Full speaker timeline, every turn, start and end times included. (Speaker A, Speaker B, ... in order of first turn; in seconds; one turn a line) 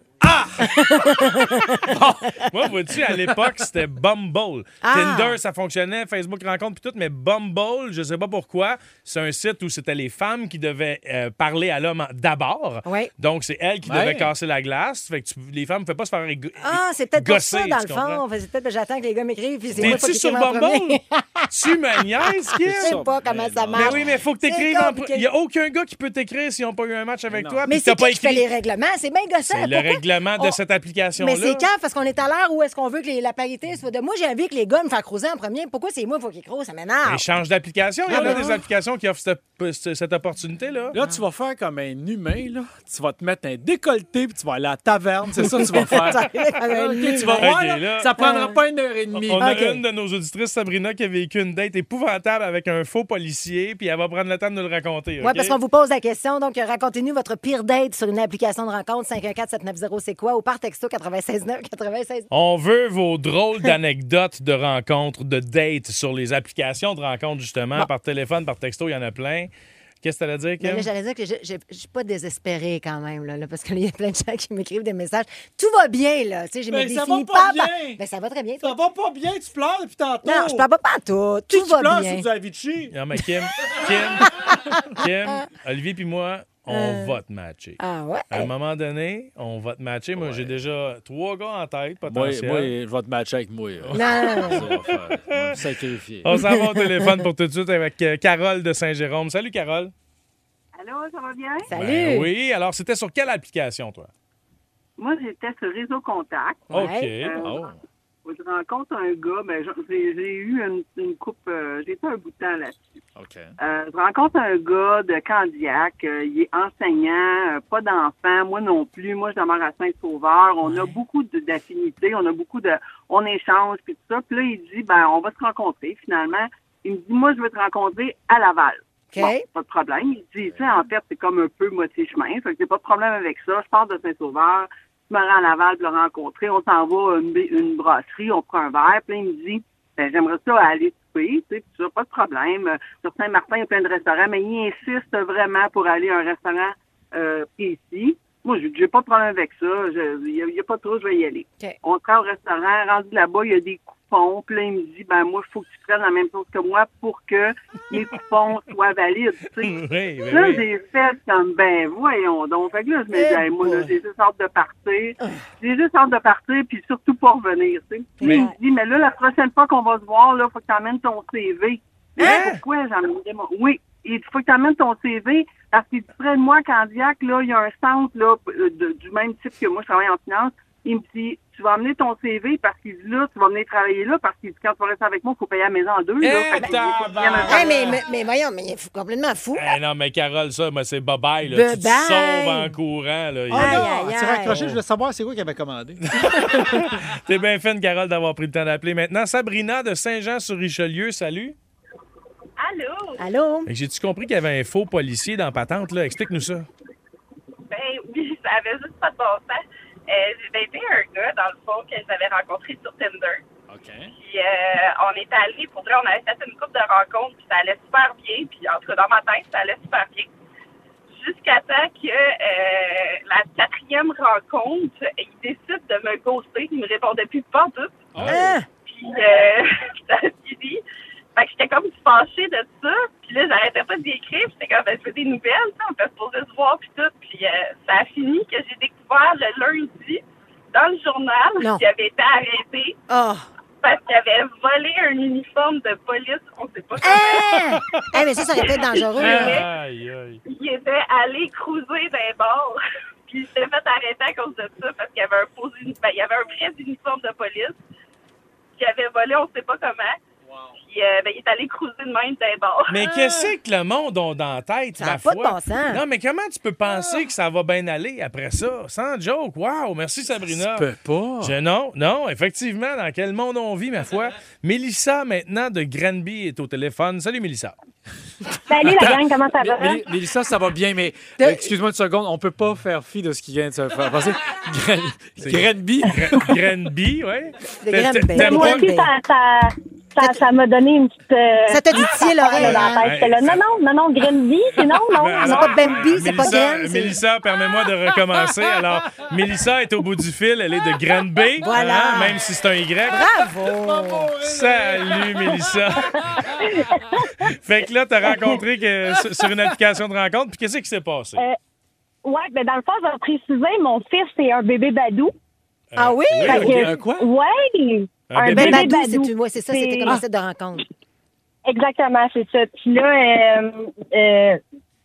Speaker A: 0.2-1.2
Speaker B: 0.6-1.9
Speaker A: 1.9-2.3
Speaker C: 2.3-18.2
Speaker A: 3.0-3.5
Speaker B: 4.8-5.4
Speaker B: 12.9-13.1
Speaker A: 13.8-14.3
Speaker B: 16.6-21.5
Speaker A: 19.7-20.1
Speaker C: 19.8-21.0
Speaker C: 21.5-23.0
Speaker A: 22.6-24.2
Speaker B: 22.7-25.2
Speaker C: 23.8-28.5
Speaker A: 27.3-27.7
Speaker B: 27.7-30.6
Speaker C: 29.5-31.7
Speaker B: 31.2-37.2
Speaker C: 37.1-41.0
Speaker A: 38.1-38.6
Speaker B: 38.1-38.5
Speaker A: 40.9-49.8
Speaker B: 45.8-47.5
Speaker C: 47.4-48.1
Speaker B: 48.2-48.6
Speaker C: 49.2-55.6
Speaker B: 55.2-62.3
Speaker C: 62.3-69.5
Speaker C: 70.0-70.9
Speaker B: 70.6-78.7
Speaker A: 76.7-78.0
Speaker A: 78.6-80.7
Speaker B: 80.2-82.3
Speaker A: 81.5-83.0
Speaker C: 82.9-87.8
Speaker B: 84.5-84.8
Speaker B: 86.7-87.1
Speaker B: 87.8-88.5
Speaker C: 88.3-92.7
Speaker A: 90.2-90.5
Speaker A: 92.1-96.3
Speaker C: 93.9-95.6
Speaker B: 94.0-94.6
Speaker C: 96.2-99.9
Speaker B: 96.3-97.2
Speaker D: 100.8-101.7
Speaker B: 101.7-102.3
Speaker C: 101.8-104.1
Speaker D: 105.0-107.7
Speaker B: 106.7-107.1
Speaker C: 106.7-107.7
Speaker D: 108.2-112.8
Speaker A: 113.2-113.5
Speaker D: 113.6-188.0
Speaker B: 129.1-129.4
Speaker A: 130.4-130.8
Speaker C: 159.6-160.6
Speaker B: 163.1-163.9
Speaker B: 168.2-168.6
Speaker B: 172.2-172.6
Speaker C: 172.2-172.5
Speaker C: 186.2-188.0
Speaker B: 187.5-189.8
Speaker C: 189.6-193.9
Speaker B: 191.5-192.8
Speaker A: 193.5-196.6
Speaker B: 193.5-194.6
Speaker C: 194.5-194.8
Speaker C: 196.2-201.6
Speaker E: 202.6-203.2
Speaker B: 203.2-203.7
Speaker C: 203.7-206.7
Speaker E: 207.7-213.4
Speaker A: 213.7-214.1
Speaker E: 214.2-220.3
Speaker E: 221.1-228.1
Speaker A: 228.2-228.6
Speaker C: 228.2-228.5
Speaker B: 228.2-228.7
Speaker E: 228.9-230.8
Speaker E: 231.4-240.2
Speaker E: 240.7-242.9
Speaker B: 243.1-243.5
Speaker E: 243.8-247.8
Speaker B: 247.0-249.7
Speaker C: 247.8-248.0
Speaker E: 248.6-249.7
Speaker C: 249.2-250.4
Speaker E: 250.5-257.8
Speaker E: 258.8-260.2
Speaker E: 260.9-263.4
Speaker C: 262.9-270.9
Speaker B: 265.0-266.0
Speaker A: 266.9-267.2
Speaker A: 270.5-271.6
Speaker C: 271.4-277.8
Speaker F: 278.7-280.0
Speaker A: 278.8-286.6
Speaker B: 281.4-281.7
Speaker C: 285.4-288.9
Speaker B: 287.8-289.1
Speaker F: 288.3-295.9
Speaker B: 291.7-293.1
Speaker C: 292.6-293.6
Speaker C: 295.2-303.2
Speaker B: 295.4-297.2
Speaker A: 298.3-298.9
Speaker B: 301.6-302.4
Speaker A: 303.1-306.9
Speaker B: 303.1-304.3
Speaker C: 304.4-306.5
Speaker F: 306.7-307.5
Speaker C: 307.5-311.4
Speaker A: 309.1-309.8
Speaker F: 312.2-315.3
Speaker C: 315.9-316.9
Speaker B: 316.0-316.8
Speaker A: 316.4-317.3
Speaker F: 316.5-320.2
Speaker C: 318.3-318.9
Speaker B: 318.5-320.9
Speaker F: 321.7-324.6